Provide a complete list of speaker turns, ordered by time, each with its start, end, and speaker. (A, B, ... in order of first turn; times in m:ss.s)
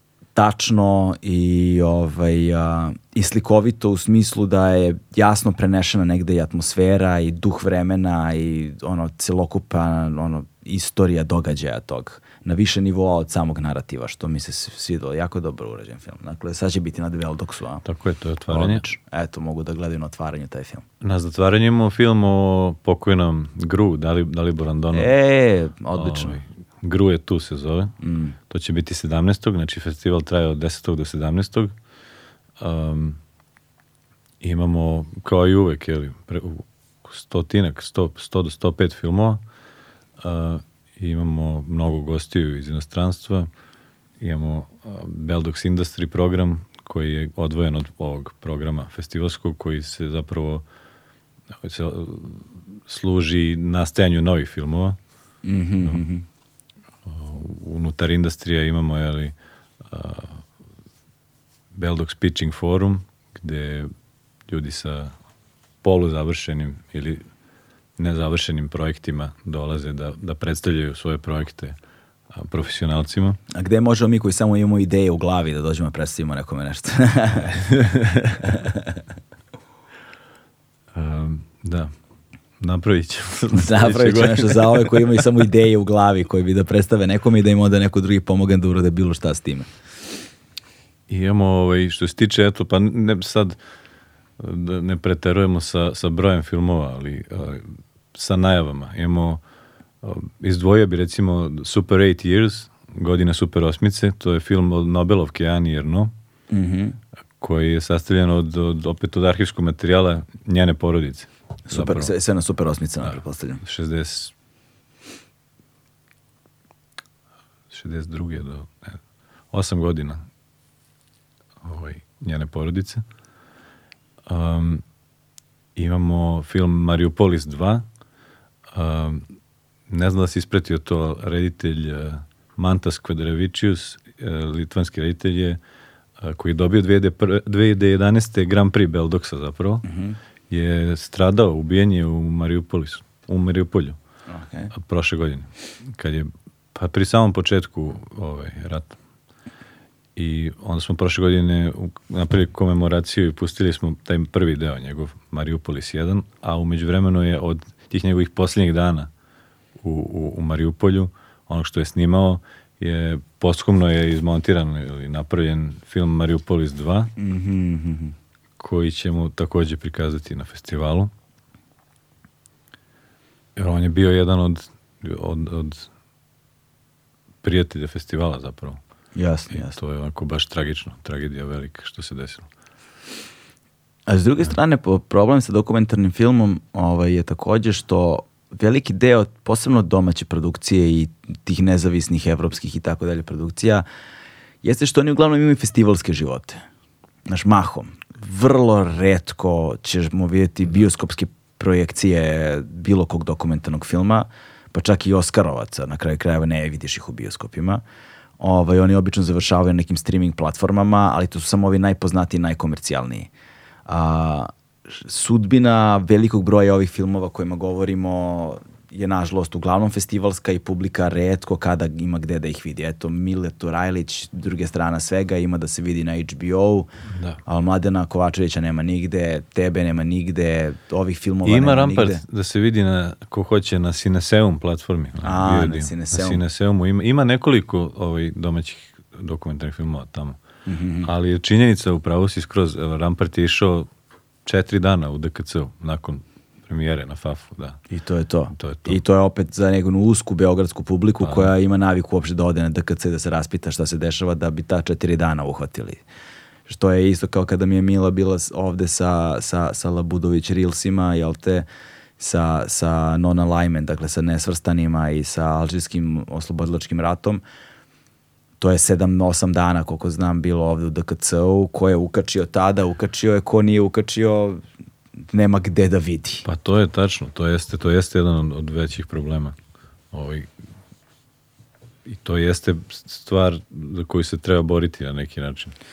0:00.4-0:17.8 A
0:17.8-0:18.8 B
0:18.5-0:20.8 A
0:21.0-0:25.1 B
0:24.9-0:26.4 A
0:26.0-0:28.0 B
0:28.0-0:28.4 A
0:28.5-0:31.7 B
0:32.6-0:33.2 B
0:34.4-0:39.4 B
0:40.2-0:43.5 B
0:44.2-0:50.6 B
0:51.6-0:55.0 B
0:55.4-0:56.2 A
0:57.0-0:59.3 B
0:59.8-1:00.4 B
1:01.8-1:03.9 B
1:04.5-1:05.2 B
1:05.8-1:07.2 B
1:08.0-1:11.8 B
1:12.3-1:13.4 B
1:13.5-1:17.8 A
1:17.5-1:18.5 B
1:18.4-1:19.0 A
1:20.9-1:21.9 B
1:22.6-1:25.2 B
1:23.5-1:29.7 A
1:31.1-1:33.6 B
1:34.4-1:39.4 B
1:40.0-1:46.1 B
1:46.5-1:47.0 A
1:47.4-1:52.1 B
1:51.7-1:53.6 A
1:53.0-1:54.3 B
1:57.7-2:00.2 B
2:01.6-2:03.0 B
2:04.3-2:04.8 B
2:05.8-2:07.9 B
2:08.7-2:09.3 B
2:09.9-2:15.6 B
2:16.2-2:19.8 B
2:19.8-2:20.2 A
2:20.5-2:24.0 B
2:24.3-2:24.7 A
2:24.7-2:29.0 B
2:30.2-2:39.1 B
2:39.8-2:47.1 B
2:47.2-2:48.2 A
2:48.6-2:51.1 B
2:53.6-2:55.9 B
2:57.4-2:58.8 B
2:59.2-2:59.8 A
2:59.5-3:02.5 B
3:04.1-3:13.9 A
3:14.6-3:16.6 A
3:17.3-3:27.8 A
3:28.4-3:33.3 A
3:33.9-3:46.9 A
3:47.1-3:47.4 B
3:47.5-3:52.2 A
3:51.4-4:00.4 B
3:55.2-3:56.4 A
4:00.7-4:01.1 A
4:01.0-4:03.9 B
4:04.5-4:07.8 B
4:07.9-4:16.0 A
4:08.6-4:09.0 B
4:11.2-4:11.5 B
4:16.7-4:21.7 A
4:22.2-4:27.4 A
4:28.6-4:34.6 A
4:35.3-4:36.5 A
4:36.4-4:39.6 B
4:40.1-4:40.5 B
4:42.1-4:45.8 B